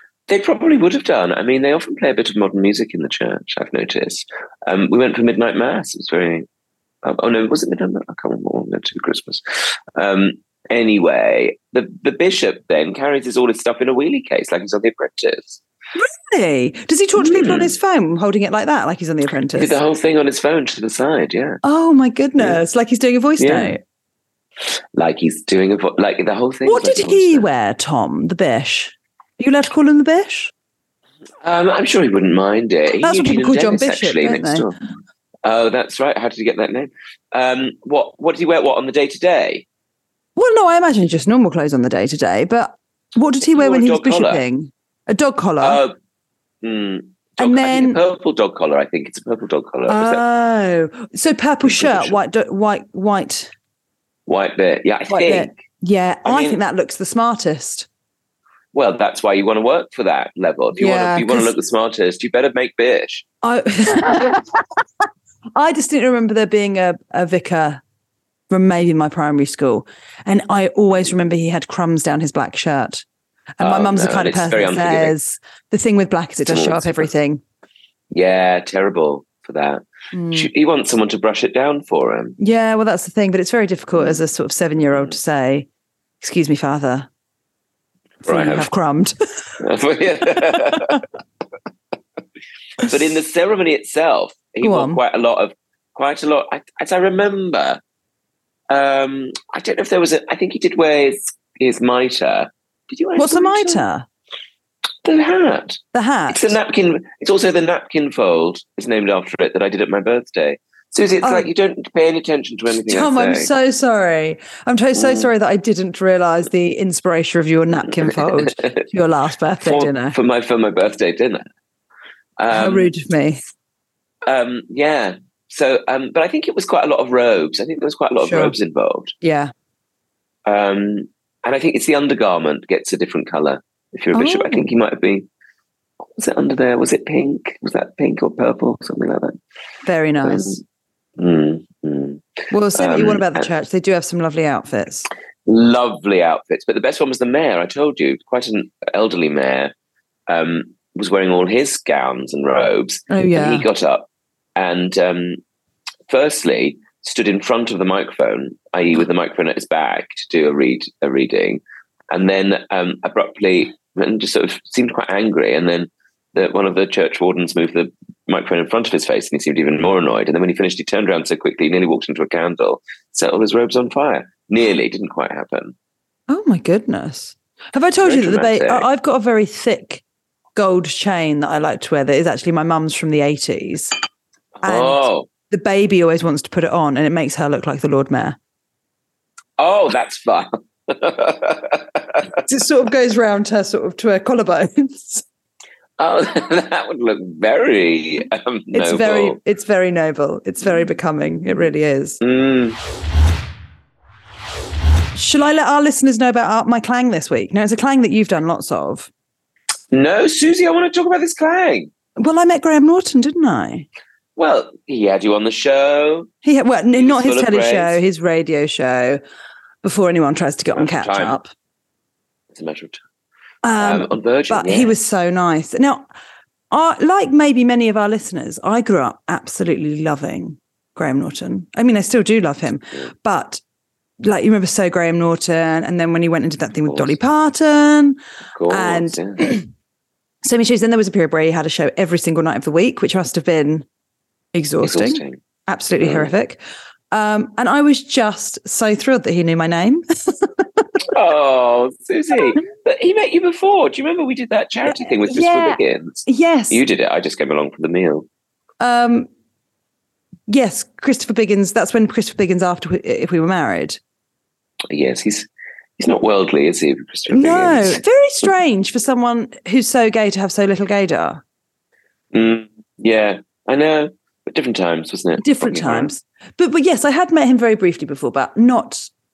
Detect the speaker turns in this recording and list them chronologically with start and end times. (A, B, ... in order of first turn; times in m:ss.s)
0:00.3-0:06.5 A
0:07.0-0:15.6 A
0:16.0-0:19.8 B
0:17.2-0:17.7 A
0:19.6-0:21.6 A
0:21.6-0:23.8 B
0:23.4-0:23.8 A
0:24.7-0:27.4 A
0:26.6-0:30.5 B
0:31.4-0:34.8 A
0:33.0-0:34.7 B
0:35.4-0:39.6 A
0:40.4-0:45.8 B
0:43.5-0:44.4 A
0:45.6-0:46.0 A
0:46.6-0:50.2 A
0:47.4-0:48.0 B
0:49.9-0:53.5 B
0:51.6-0:52.2 A
0:54.3-0:55.5 A
0:55.1-0:57.9 B
0:56.2-0:56.6 A
0:58.7-1:03.2 A
1:00.8-1:01.5 B
1:03.4-1:04.6 B
1:05.6-1:07.8 B
1:08.5-1:13.0 B
1:13.6-1:17.4 B
1:13.6-1:15.2 A
1:16.5-1:17.1 A
1:18.1-1:22.4 A
1:20.1-1:20.5 B
1:22.4-1:25.7 B
1:26.2-1:27.1 B
1:28.2-1:29.2 B
1:28.2-1:28.7 A
1:29.6-1:31.0 A
1:30.7-1:31.0 B
1:32.8-1:37.8 A
1:34.6-1:35.0 B
1:38.7-1:43.8 A
1:43.2-1:44.1 B
1:45.0-1:53.5 A
1:45.9-1:46.5 B
1:51.2-1:51.5 B
1:52.8-2:00.2 B
1:55.0-1:55.3 A
1:58.0-1:58.8 A
1:59.6-2:01.4 A
2:02.4-2:02.9 A
2:02.5-2:03.4 B
2:04.2-2:09.2 A
2:08.2-2:08.6 B
2:09.2-2:09.5 B
2:10.5-2:15.3 A
2:14.1-2:14.7 B
2:16.2-2:19.4 A
2:19.8-2:20.6 B
2:20.2-2:20.6 A
2:21.2-2:22.2 A
2:22.5-2:25.1 B
2:22.8-2:23.4 A
2:25.5-2:29.7 A
2:30.3-2:35.4 A
2:33.1-2:33.7 B
2:36.1-2:55.8 A
2:56.3-3:00.0 B
2:58.0-2:58.9 A
3:00.6-3:04.0 B
3:04.6-3:05.3 A
3:04.6-3:08.4 B
3:09.6-3:12.2 A
3:12.4-3:15.2 B
3:16.0-3:19.4 A
3:18.7-3:22.2 B
3:22.2-3:22.8 A
3:25.2-3:29.1 B
3:29.9-3:31.9 A
3:32.2-3:33.9 B
3:34.4-3:36.3 A
3:36.4-3:39.2 B
3:37.0-3:38.0 A
3:39.8-3:41.5 B
3:40.7-3:41.4 A
3:42.5-3:43.0 A
3:43.6-3:46.1 B
3:43.8-3:45.0 A
3:46.7-3:53.6 B
3:54.2-3:59.7 B
3:56.8-3:57.2 A
3:58.6-3:59.5 A
4:00.4-4:03.9 B
4:04.5-4:06.6 B
4:04.8-4:05.4 A
4:06.0-4:06.3 A
4:07.1-4:10.9 B
4:11.1-4:18.3 A
4:14.9-4:16.8 B
4:18.8-4:19.3 B
4:20.5-4:24.0 B
4:24.9-4:28.0 A
4:27.3-4:31.4 B
4:32.3-4:36.1 A
4:35.4-4:39.1 B